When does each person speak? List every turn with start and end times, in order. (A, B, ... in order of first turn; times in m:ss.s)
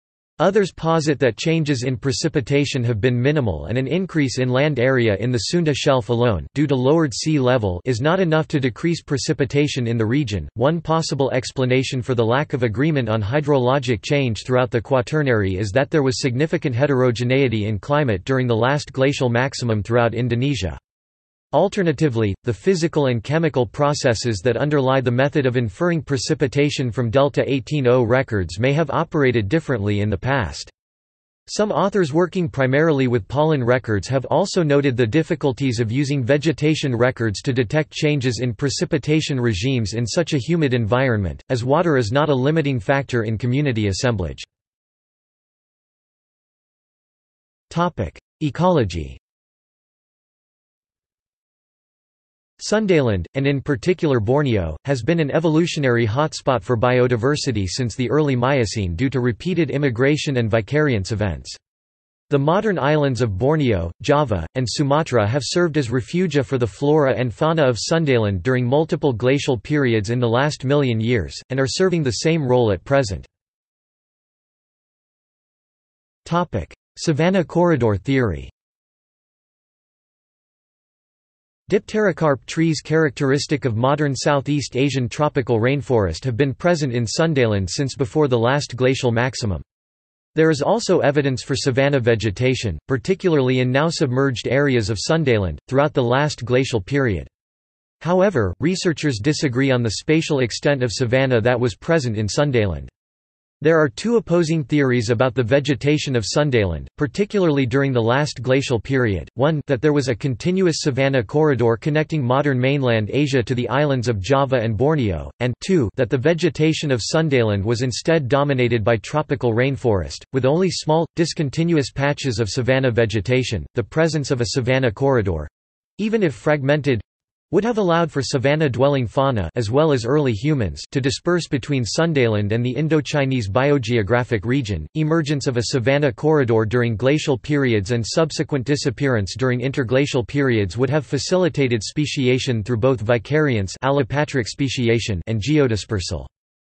0:00.4-0:20.8 A
0:21.5-0:30.7 A
0:31.5-0:44.5 A
0:47.7-0:49.2 A
0:52.6-1:01.6 A
1:02.3-1:13.3 A
1:16.2-1:18.5 A
1:21.7-1:29.6 A
1:30.4-1:37.3 A
1:38.0-1:42.9 A
1:43.6-2:26.3 A